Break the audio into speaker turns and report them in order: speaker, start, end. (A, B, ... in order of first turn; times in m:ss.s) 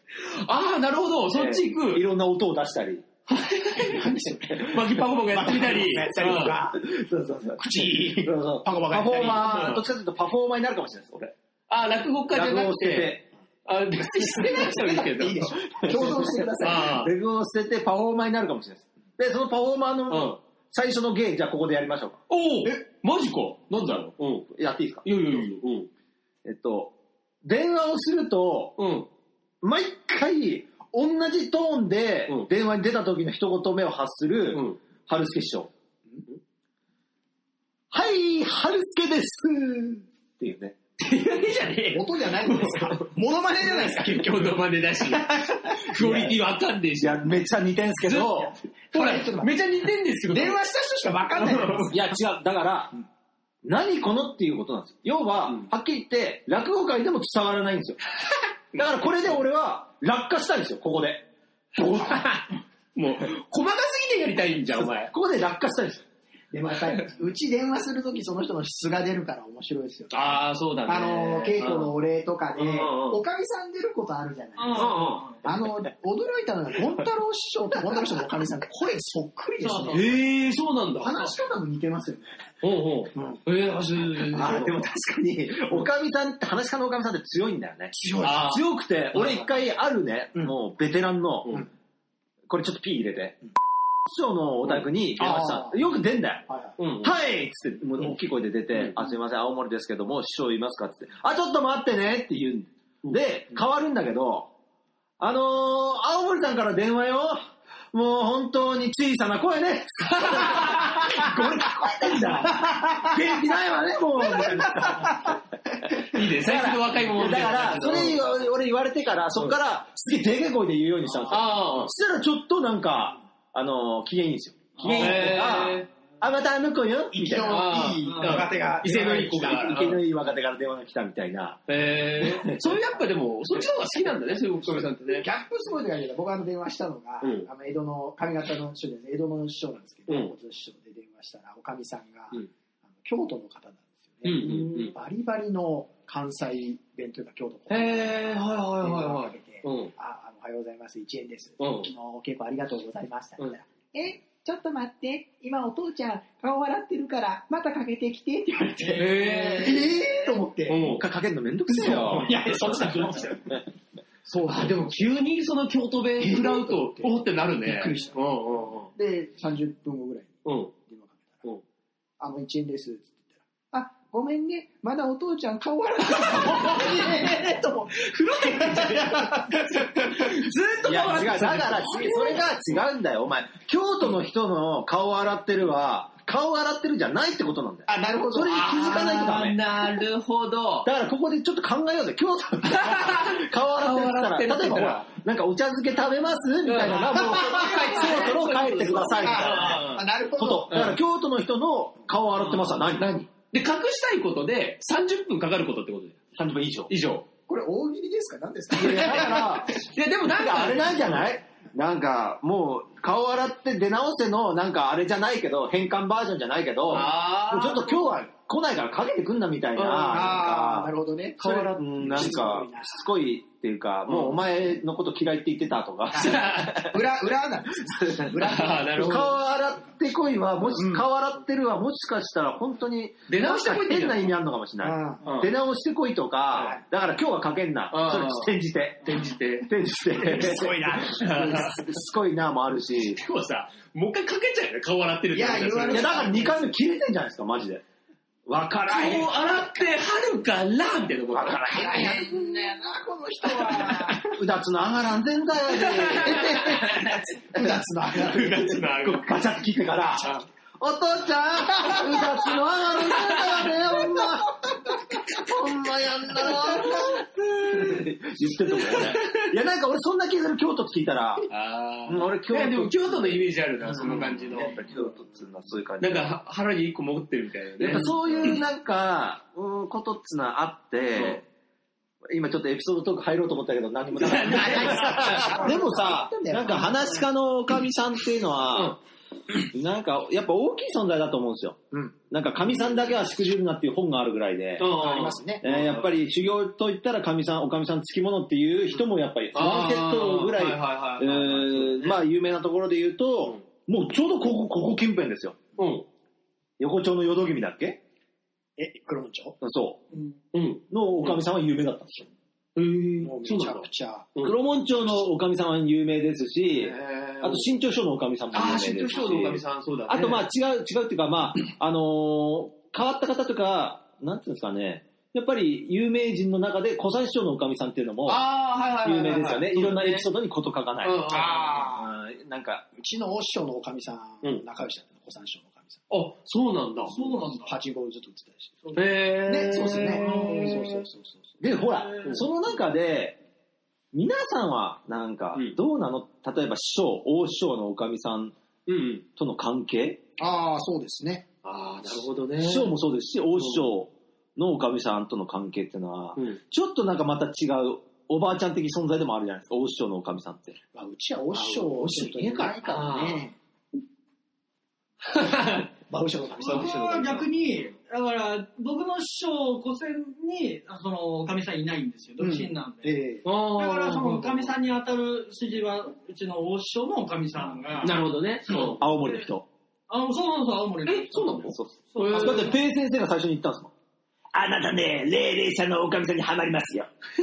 0:00.2-0:02.1 A
0:01.3-0:03.1 B
0:03.3-0:04.1 A
0:03.8-0:06.9 C
0:04.6-0:06.6 A
0:06.7-0:11.3 B
0:07.5-0:09.4 C
0:09.1-0:09.8 A
0:11.7-0:17.1 A
0:12.3-0:13.3 B
0:14.0-0:17.0 C
0:15.8-0:22.2 B
0:20.1-0:20.4 A
0:22.3-0:24.5 A
0:24.5-0:25.4 B
0:25.0-0:25.9 A
0:26.4-0:28.8 B
0:28.8-0:29.1 A
0:29.6-0:35.7 B
0:34.5-0:34.8 A
0:37.9-0:40.8 B
0:41.0-0:43.1 A
0:41.9-0:46.3 C
0:43.6-0:47.3 A
0:47.0-0:48.5 B
0:48.1-0:50.6 A
0:48.9-0:49.6 C
0:50.3-0:52.0 C
0:51.4-0:51.9 A
0:51.9-0:52.9 B
0:53.6-0:58.0 B
0:58.7-1:01.3 B
1:01.8-1:05.1 A
1:04.8-1:06.0 B
1:06.5-1:20.2 C
1:10.1-1:12.0 A
1:12.6-1:13.2 A
1:14.6-1:15.4 D
1:14.8-1:15.3 A
1:19.6-1:20.1 D
1:19.9-1:21.4 A
1:21.0-1:22.5 C
1:22.6-1:24.8 A
1:23.1-1:23.4 C
1:24.3-1:31.6 B
1:24.4-1:24.7 C
1:27.9-1:28.6 C
1:28.2-1:28.6 A
1:32.5-1:33.4 B
1:34.1-1:36.5 B
1:35.2-1:35.8 C
1:36.5-1:36.8 C
1:36.8-1:37.2 A
1:37.0-1:44.5 B
1:45.2-1:55.4 B
1:50.2-1:51.0 A
1:52.0-1:53.2 C
1:54.2-1:55.4 C
1:56.1-1:58.2 A
1:56.2-2:07.7 B
2:01.3-2:01.9 A
2:04.9-2:05.9 A
2:04.9-2:05.5 C
2:07.1-2:09.8 C
2:07.4-2:10.0 A
2:08.0-2:08.6 D
2:08.9-2:12.6 B
2:11.7-2:15.3 A
2:14.7-2:22.4 C
2:17.2-2:17.5 A
2:20.1-2:20.3 A
2:23.0-2:40.9 C
2:24.2-2:25.0 A
2:27.7-2:29.9 A
2:31.6-2:31.9 A
2:38.9-2:39.9 A
2:40.7-2:41.0 A
2:40.8-2:43.6 B
2:41.7-2:43.6 C
2:42.1-2:42.6 A
2:44.3-2:48.9 A
2:44.5-2:44.8 C
2:46.2-2:48.2 C
2:49.0-2:51.3 C
2:50.4-2:50.7 A
2:52.2-2:53.2 C
2:53.7-3:00.4 C
2:58.4-2:59.4 A
2:59.9-3:02.4 A
3:00.8-3:09.6 B
3:01.9-3:02.3 C
3:07.9-3:09.2 C
3:08.5-3:10.9 A
3:10.8-3:23.2 B
3:12.7-3:15.1 A
3:16.6-3:20.1 A
3:17.1-3:18.4 C
3:19.2-3:20.8 C
3:20.7-3:21.0 A
3:22.4-3:26.2 A
3:26.4-3:26.9 B
3:26.9-3:27.3 A
3:27.5-3:29.6 C
3:28.7-3:46.7 B
3:28.8-3:31.2 A
3:36.9-3:38.1 A
3:39.8-3:40.4 A
3:40.1-3:43.0 C
3:44.1-3:44.4 A
3:46.1-3:47.0 A
3:46.1-3:49.8 C
3:47.9-4:03.2 B
3:48.4-3:49.3 A
3:50.8-3:51.0 C
3:53.3-3:54.4 A
3:54.8-3:55.2 C
3:55.2-3:55.5 A
3:57.9-3:59.7 A
4:00.2-4:01.8 C
4:01.0-4:01.8 A
4:03.1-4:06.3 A
4:05.3-4:06.7 C
4:05.9-4:07.8 B
4:08.5-4:09.3 B
4:08.9-4:12.2 A
4:11.3-4:12.3 B
4:11.7-4:14.4 C
4:13.6-4:14.1 A
4:14.2-4:17.0 B
4:15.7-4:17.2 A
4:16.2-4:18.9 C
4:18.2-4:19.3 A
4:19.0-4:24.8 B
4:21.7-4:22.2 C
4:22.0-4:22.3 A
4:23.0-4:23.6 A
4:24.0-4:24.2 C
4:25.3-4:31.5 B
4:26.4-4:27.0 C
4:26.4-4:29.5 A
4:31.5-4:34.8 A
4:32.1-4:36.3 B
4:36.0-4:38.6 A
4:37.8-4:41.4 B
4:42.3-4:49.0 B
4:44.2-4:45.7 A
4:44.4-4:47.2 C
4:49.6-4:51.8 B
4:52.3-4:54.9 B
4:54.8-4:56.1 A
4:54.9-4:55.6 C
4:55.6-5:05.6 B
4:59.6-5:02.2 A
5:05.8-5:06.1 A
5:06.8-5:08.0 B
5:08.8-5:09.6 C
5:09.6-5:10.0 B
5:10.5-5:11.4 A
5:10.9-5:12.3 B
5:12.8-5:14.6 A
5:13.2-5:14.3 C
5:14.4-5:32.9 B
5:16.7-5:17.7 A
5:18.5-5:20.5 A
5:28.3-5:30.3 A
5:31.0-5:31.7 A
5:31.3-5:32.1 C
5:33.0-5:36.0 C
5:36.1-5:37.3 A
5:37.1-5:37.8 D
5:37.7-5:38.8 C
5:38.8-5:39.2 D
5:39.0-5:41.0 A
5:39.5-5:41.7 C
5:40.1-5:40.9 D
5:41.6-5:43.4 B
5:41.8-5:42.4 D
5:44.1-5:48.6 B
5:48.9-5:49.3 A
5:49.4-5:50.2 B
5:50.4-5:51.4 C
5:51.6-5:52.9 A
5:52.6-6:00.8 B
5:53.6-5:53.8 A
6:00.9-6:03.6 C
6:01.5-6:03.4 A
6:05.2-6:05.9 A
6:06.1-6:07.0 C
6:06.6-6:07.5 A
6:06.6-6:13.2 D
6:12.4-6:13.4 C
6:13.4-6:14.7 A
6:13.8-6:18.2 D
6:18.0-6:19.0 A
6:18.7-6:19.7 B
6:20.1-6:22.8 D
6:21.1-6:22.8 A
6:21.7-6:23.9 B
6:24.5-6:27.1 E